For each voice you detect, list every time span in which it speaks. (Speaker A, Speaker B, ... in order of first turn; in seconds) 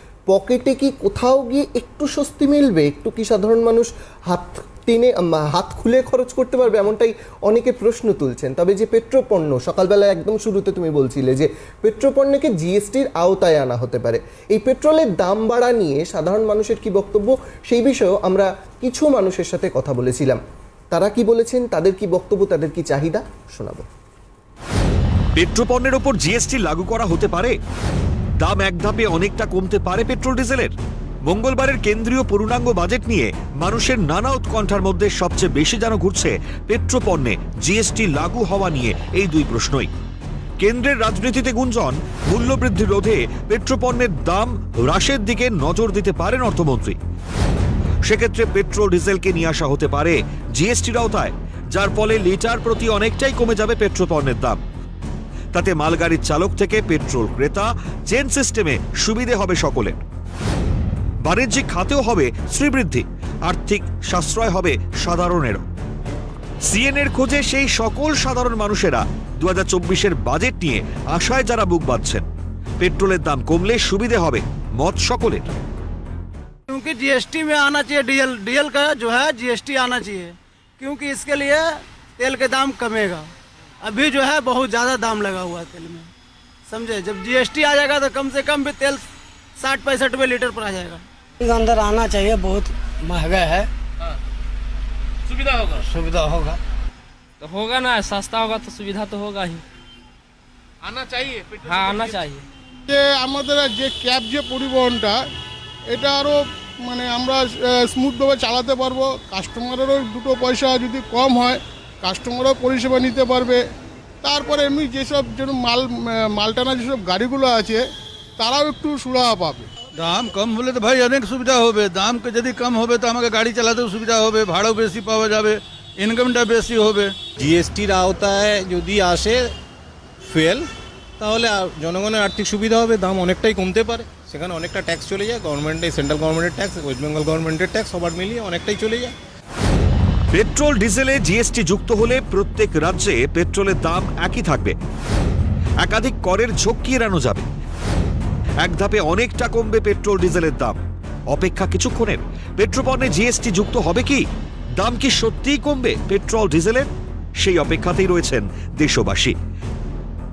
Speaker A: 0.3-20.4, 20.9-23.9
Speaker B: 25.4-27.5, 28.4-30.7, 31.3-39.9, 40.6-47.0, 48.0-54.6, 55.5-60.0, 61.3-65.6, 66.7-72.2, 72.8-75.5, 140.3-144.8, 145.8-147.5, 148.6-150.8, 151.3-154.3, 154.8-159.3
Speaker C: 76.7-86.1, 86.7-91.0
Speaker D: 91.4-93.7, 95.8-96.6
Speaker E: 97.4-99.6, 101.5-102.4
Speaker F: 102.9-105.2, 105.9-113.6, 114.2-117.8, 118.4-119.7
Speaker G: 120.0-127.1
Speaker H: 127.4-129.5, 130.3-130.7, 131.2-139.1